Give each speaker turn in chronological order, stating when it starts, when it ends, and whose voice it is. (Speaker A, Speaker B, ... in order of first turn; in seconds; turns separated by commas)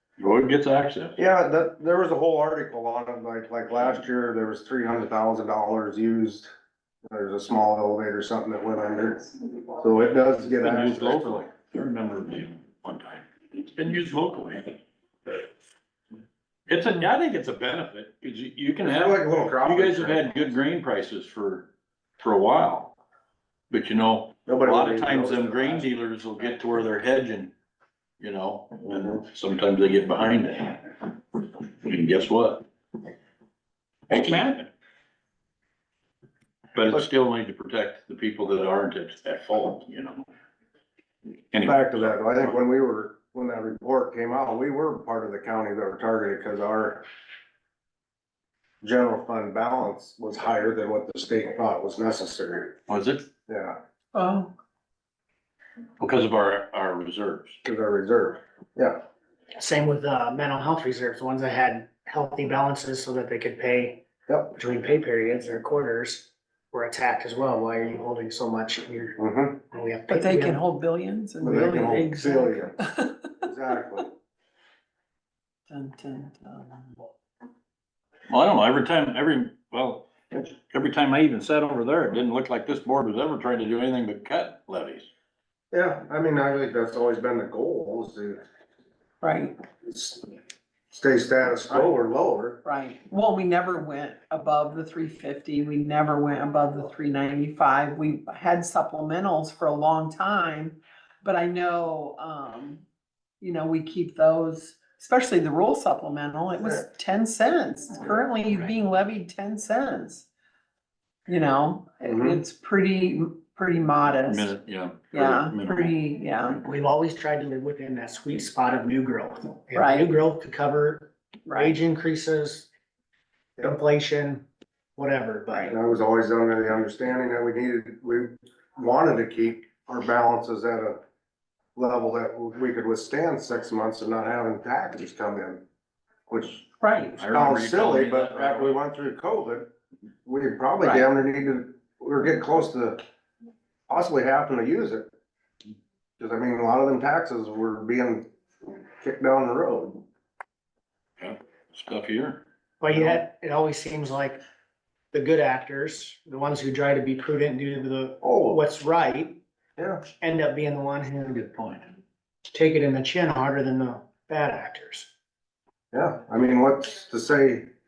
Speaker A: 0.2-1.2, Speaker B: 1.2-6.5, Speaker B: 7.1-11.5, Speaker A: 10.5-15.4, Speaker A: 16.7-22.9, Speaker B: 18.8-20.5, Speaker A: 23.7-27.5, Speaker B: 24.5-25.9, Speaker A: 28.2-32.6, Speaker A: 34.1-34.7, Speaker A: 36.8-40.2, Speaker A: 41.5-42.5, Speaker B: 41.6-47.0, Speaker B: 48.8-52.8, Speaker A: 52.9-53.2, Speaker B: 53.5-53.8, Speaker C: 54.1-54.5, Speaker A: 56.0-57.6, Speaker B: 57.6-59.0, Speaker D: 59.6-64.0, Speaker B: 64.3-64.5, Speaker D: 64.5-69.2, Speaker B: 69.2-69.6, Speaker D: 69.7-70.6, Speaker C: 70.2-72.5, Speaker B: 71.4-72.8, Speaker B: 73.4-74.1, Speaker C: 75.7-77.0, Speaker A: 78.3-85.1, Speaker B: 85.7-88.4, Speaker C: 89.2-89.6, Speaker B: 89.9-90.2, Speaker B: 90.9-92.6, Speaker C: 92.7-102.8, Speaker C: 103.4-110.2, Speaker B: 106.6-106.8, Speaker C: 111.3-114.6, Speaker B: 112.0-112.5, Speaker A: 114.1-116.0, Speaker C: 115.1-116.5, Speaker D: 116.6-122.7, Speaker D: 123.6-124.5, Speaker D: 125.0-125.7, Speaker B: 125.7-131.0, Speaker B: 131.8-135.6, Speaker B: 136.3-136.7, Speaker C: 136.8-137.1, Speaker A: 137.1-138.8, Speaker B: 137.2-139.7, Speaker B: 140.2-143.0, Speaker B: 143.9-145.1, Speaker B: 146.2-148.3, Speaker B: 149.0-150.0, Speaker A: 151.2-153.2, Speaker D: 152.8-154.4, Speaker D: 155.1-159.4, Speaker B: 158.2-158.6, Speaker B: 159.8-160.0, Speaker D: 160.2-161.9, Speaker D: 162.5-165.1, Speaker B: 165.9-167.7